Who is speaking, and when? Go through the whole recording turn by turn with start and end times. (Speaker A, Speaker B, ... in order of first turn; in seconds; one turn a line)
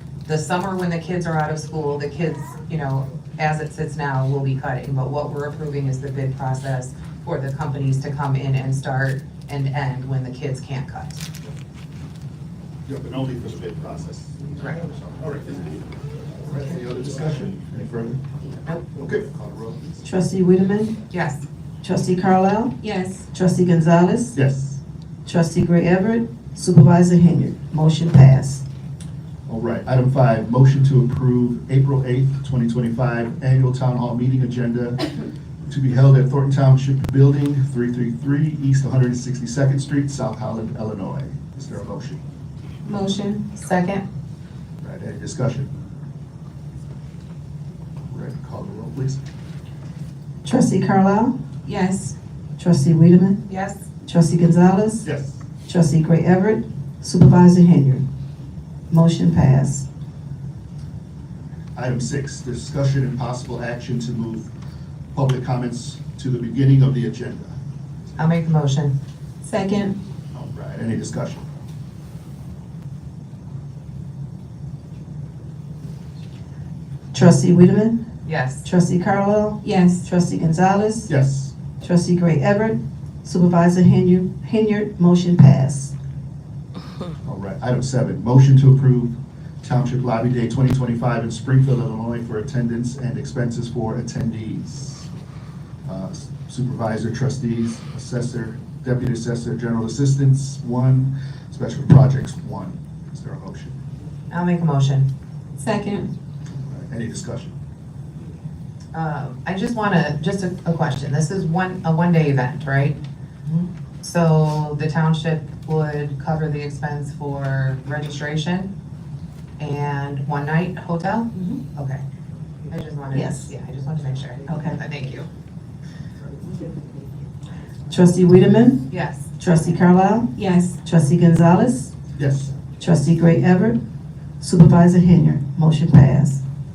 Speaker A: 0.3-11.3
Speaker B: 12.9-18.2
Speaker A: 14.6-14.8
Speaker B: 18.9-20.0
Speaker C: 20.0-20.9
Speaker A: 21.1-21.4
Speaker C: 21.8-22.8
Speaker D: 22.8-23.3
Speaker C: 23.3-24.4
Speaker B: 24.3-24.8
Speaker C: 25.2-28.6
Speaker B: 29.5-35.1
Speaker B: 35.7-42.2
Speaker D: 42.9-43.5
Speaker A: 43.6-44.0
Speaker B: 44.8-45.7
Speaker B: 48.1-49.2
Speaker C: 50.5-51.4
Speaker D: 51.6-52.1
Speaker C: 52.6-53.4
Speaker A: 53.5-53.8
Speaker C: 54.1-55.1
Speaker B: 55.0-55.4
Speaker C: 55.7-58.0
Speaker C: 58.9-59.9
Speaker B: 61.8-64.5
Speaker B: 65.1-67.6
Speaker A: 68.2-69.0
Speaker D: 69.4-70.0
Speaker B: 70.3-71.4
Speaker C: 77.1-78.0
Speaker A: 78.2-78.7
Speaker C: 78.6-81.1
Speaker D: 79.6-80.1
Speaker B: 81.1-81.5
Speaker C: 81.8-85.9
Speaker B: 87.2-95.1
Speaker B: 95.8-103.8
Speaker A: 104.3-105.1
Speaker D: 105.6-106.1
Speaker B: 106.6-107.5
Speaker A: 108.9-113.0
Speaker A: 114.0-118.7
Speaker A: 119.6-122.0
Speaker A: 122.7-125.3
Speaker C: 123.1-123.5
Speaker C: 124.5-124.8
Speaker C: 127.9-131.9
Speaker A: 128.9-129.4
Speaker D: 130.3-130.8
Speaker B: 132.2-132.5
Speaker C: 132.8-133.8
Speaker C: 134.4-136.4